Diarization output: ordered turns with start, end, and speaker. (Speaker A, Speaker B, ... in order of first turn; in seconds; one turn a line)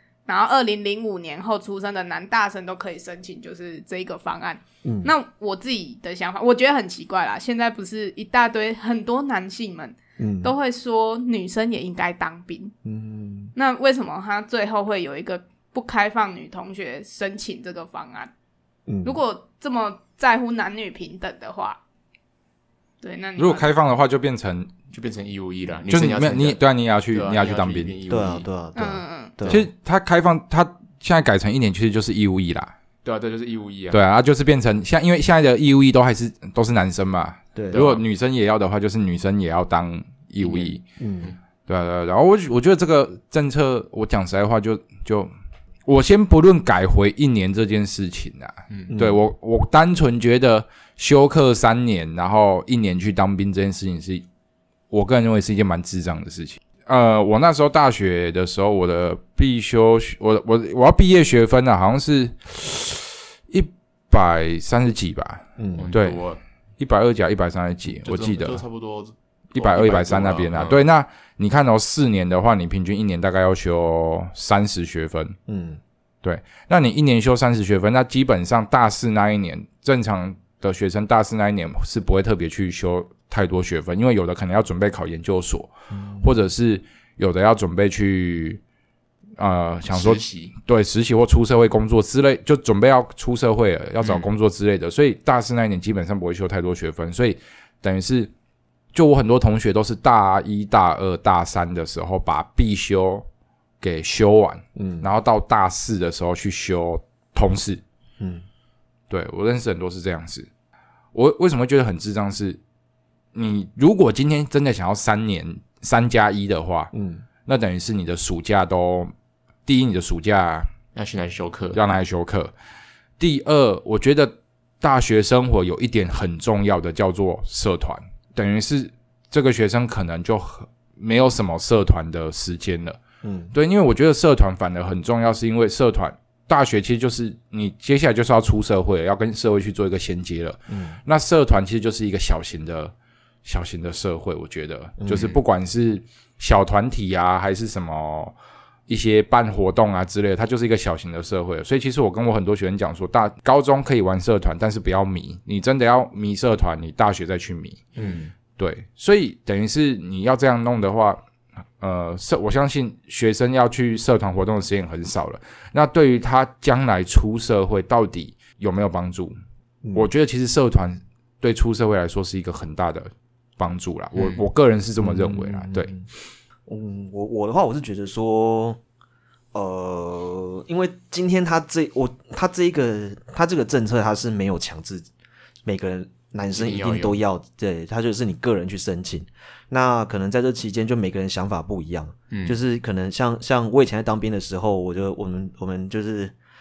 Speaker A: 0.2-12.7
Speaker B: 4.8-5.1
Speaker B: 10.2-10.5
Speaker B: 12.8-13.5
Speaker A: 13.6-18.3
Speaker B: 18.9-19.2
Speaker A: 19.0-21.8
Speaker A: 23.0-23.7
Speaker C: 23.4-24.7
Speaker D: 24.9-28.5
Speaker C: 25.9-28.0
Speaker B: 28.1-29.6
Speaker A: 28.8-29.4
Speaker C: 29.4-32.7
Speaker D: 33.0-34.0
Speaker C: 33.9-40.8
Speaker B: 37.6-37.9
Speaker D: 37.7-38.0
Speaker D: 40.4-41.4
Speaker B: 41.0-41.3
Speaker C: 41.7-45.3
Speaker C: 45.9-54.2
Speaker D: 48.7-49.0
Speaker B: 48.9-49.2
Speaker C: 54.9-66.2
Speaker B: 65.6-65.9
Speaker D: 65.8-66.4
Speaker C: 66.8-68.6
Speaker D: 67.9-70.8
Speaker C: 69.5-75.4
Speaker B: 75.5-75.8
Speaker C: 76.2-88.6
Speaker B: 85.9-86.3
Speaker C: 89.4-98.3
Speaker D: 89.9-90.5
Speaker D: 94.0-94.3
Speaker C: 98.9-103.2
Speaker C: 103.8-107.8
Speaker B: 104.8-105.1
Speaker B: 108.2-108.5
Speaker C: 109.1-110.5
Speaker C: 111.1-112.6
Speaker C: 113.3-116.9
Speaker B: 116.9-117.2
Speaker C: 117.5-119.1
Speaker C: 119.7-120.7
Speaker D: 121.0-121.8
Speaker C: 121.7-122.5
Speaker C: 123.2-133.0
Speaker B: 133.2-133.5
Speaker C: 133.5-142.9
Speaker B: 140.7-141.0
Speaker C: 143.4-148.3
Speaker B: 145.0-145.3
Speaker D: 145.1-145.4
Speaker C: 148.9-157.8
Speaker D: 158.0-158.3
Speaker C: 158.6-161.2
Speaker C: 161.8-169.3
Speaker C: 169.9-175.9
Speaker D: 174.1-174.4
Speaker B: 175.0-176.1
Speaker B: 176.7-178.8
Speaker B: 179.5-185.1
Speaker B: 185.6-196.3
Speaker D: 186.5-187.2
Speaker D: 192.3-192.6